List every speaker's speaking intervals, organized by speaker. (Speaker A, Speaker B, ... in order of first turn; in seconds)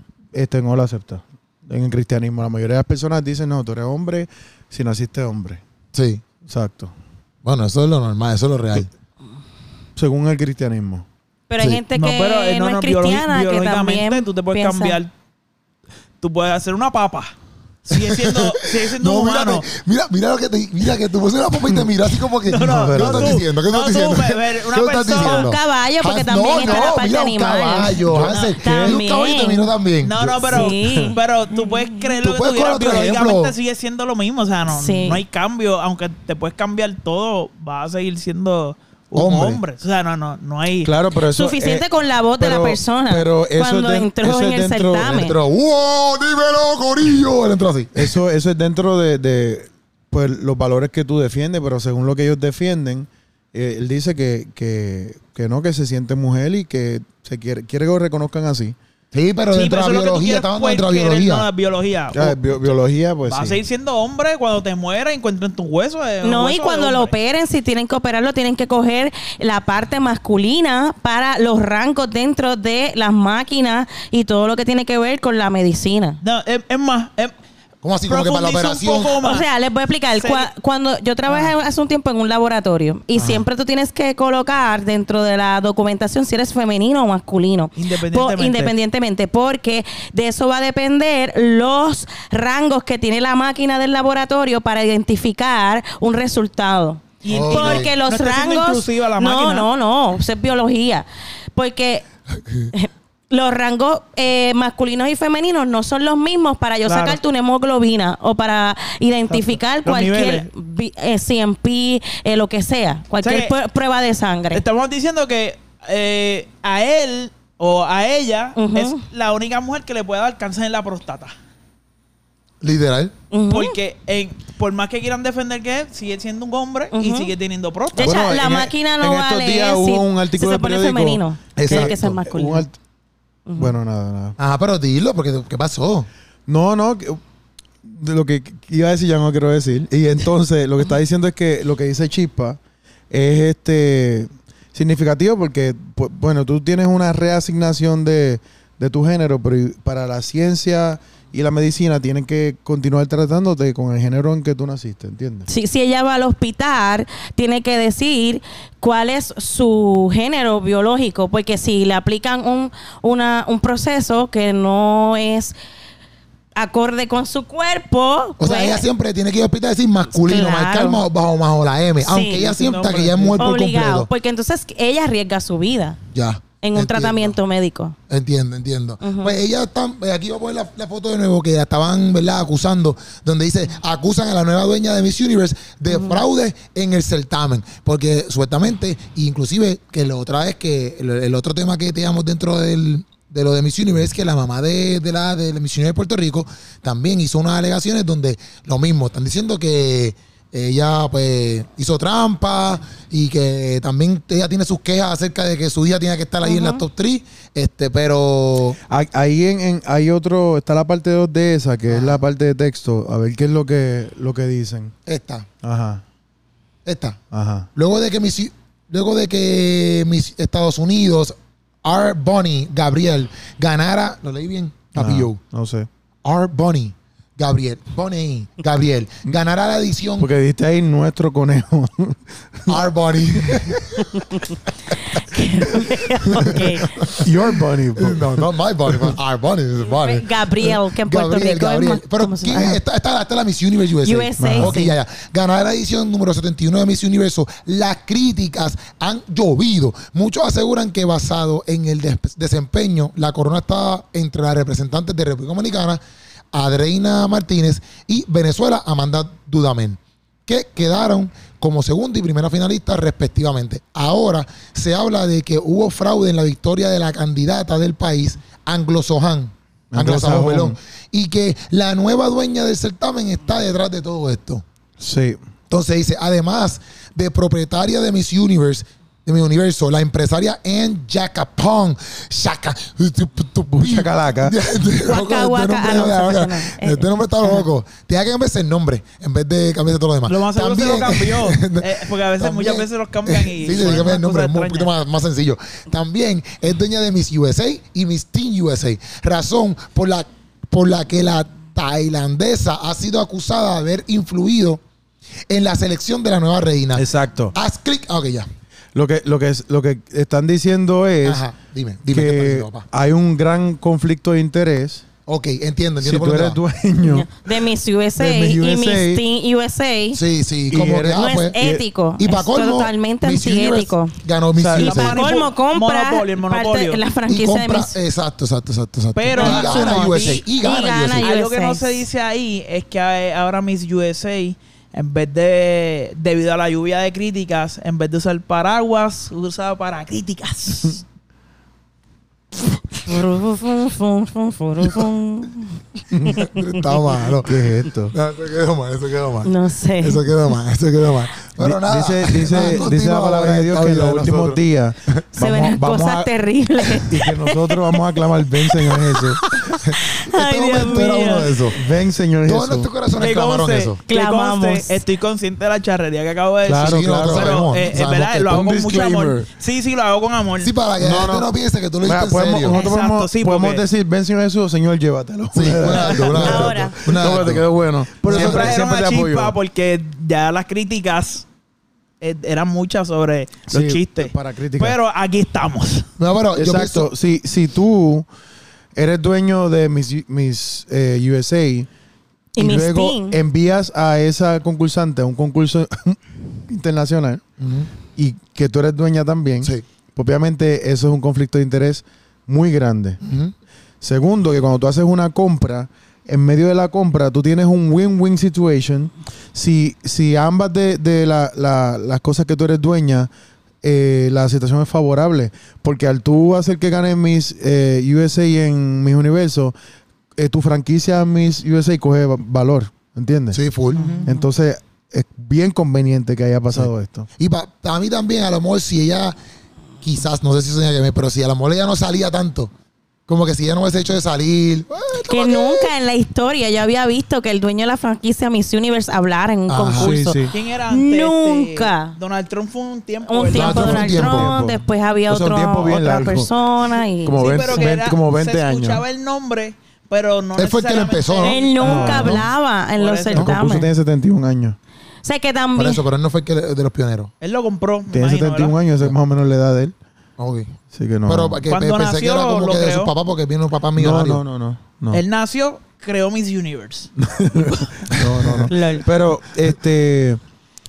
Speaker A: 0.3-5.6, 6.5-6.9, 10.0-11.1, 22.6-23.4, 28.1-29.0, 30.8-31.1, 40.8-41.9, 42.4-45.2, 48.0-58.8, 62.1-63.6, 128.0-132.8, 133.6-134.3, 136.5-137.2, 137.8-142.6, 143.1-155.5, 208.9-214.9, 215.6-216.0, 217.3-217.7, 225.0-225.9, 230.2-232.8, 233.4-233.8, 236.3-239.2, 244.4-244.7, 269.9-270.8, 275.0-275.4, 283.7-284.6, 307.0-307.6, 308.9-311.4, 312.1-315.0, 316.0-317.3, 318.2-319.2, 320.7-321.8, 324.6-325.1, 346.1-346.4, 347.4-348.1, 351.6-356.3, 357.0-359.4, 361.7-362.9, 366.6-367.6, 368.4-369.5, 371.0-371.5, 372.0-379.5, 383.7-385.0, 386.6-388.3, 388.9-391.9, 392.6-397.4, 398.2-403.2, 404.0-413.3, 413.8-419.7, 420.4-423.6, 424.3-427.3, 439.9-440.5, 443.6-446.5, 447.2-449.0, 451.8-452.5, 453.4-454.8, 458.1-459.9, 460.9-461.6, 464.0-465.2, 467.2-470.4
Speaker B: 5.9-6.2, 7.4-8.9, 17.9-30.8, 32.2-33.5, 39.1-39.6, 45.1-48.1, 59.1-61.5, 77.8-79.2, 83.2-83.5, 97.3-97.9, 122.6-123.1, 131.6-132.0, 134.4-136.1, 168.4-174.1, 176.1-177.4, 178.1-208.8, 211.9-212.2, 215.1-215.5, 216.8-217.2, 217.8-225.4, 226.2-230.3, 232.7-234.2, 236.3-237.3, 238.0-256.0, 256.5-274.6, 275.7-304.8, 305.5-308.5, 311.2-312.9, 315.3-316.6, 320.1-321.6, 322.2-325.2, 327.3-331.3, 346.4-355.2, 359.8-361.8, 362.4-364.0, 366.8-368.5, 370.6-372.8, 375.5-377.7, 378.2-378.8, 386.2-387.1, 397.6-397.9, 403.2-403.5, 423.5-424.1, 426.7-429.4, 430.0-432.7, 433.3-435.9, 439.7-440.1, 443.5-444.5, 450.6-451.6, 455.8-457.3, 460.4-460.8, 461.3-464.4, 468.1-468.7
Speaker C: 11.5-15.0, 25.2-28.0, 28.6-29.7, 30.5-32.1, 34.7-35.2, 41.3-45.4, 66.2-76.2, 79.2-102.0, 102.7-114.6, 118.6-119.0, 123.3-123.8, 126.9-127.3, 127.9-132.7, 133.5-133.8, 155.5-165.6, 166.6-168.8, 170.1-171.0, 172.0-172.5, 173.4-176.0, 176.6-178.0, 179.0-179.4, 185.9-186.2, 206.4-206.8, 234.1-237.0, 239.9-242.8, 244.0-244.9, 285.1-287.6, 317.0-320.2, 321.1-324.2, 324.9-327.9, 329.4-332.0, 343.1-346.8, 349.4-350.2, 355.3-358.1, 358.8-361.5, 364.1-365.0, 376.2-377.0, 392.6-393.4, 423.9-424.4, 435.3-442.2, 443.3-447.9, 451.4-453.9, 455.2-456.0, 468.7-469.1
Speaker D: 11.9-15.1, 16.2-17.3, 17.9-19.6, 22.5-25.5, 26.6-26.9, 30.0-40.9, 59.5-62.4, 63.3-67.1, 76.2-77.3, 78.1-79.5, 80.2-80.5, 81.3-81.5, 87.8-88.7, 97.2-99.7, 106.9-107.2, 109.3-110.5, 113.2-113.5, 114.5-121.3, 123.5-128.2, 172.4-173.5, 290.3-294.9, 324.8-327.0, 329.2-330.4, 331.2-341.0, 360.7-361.5, 363.2-370.7, 372.7-373.9, 375.9-376.4, 378.2-381.5, 382.2-386.1, 424.0-424.3, 440.5-444.0, 447.4-452.4, 453.0-453.5, 457.4-458.8, 461.7-463.1, 465.1-467.1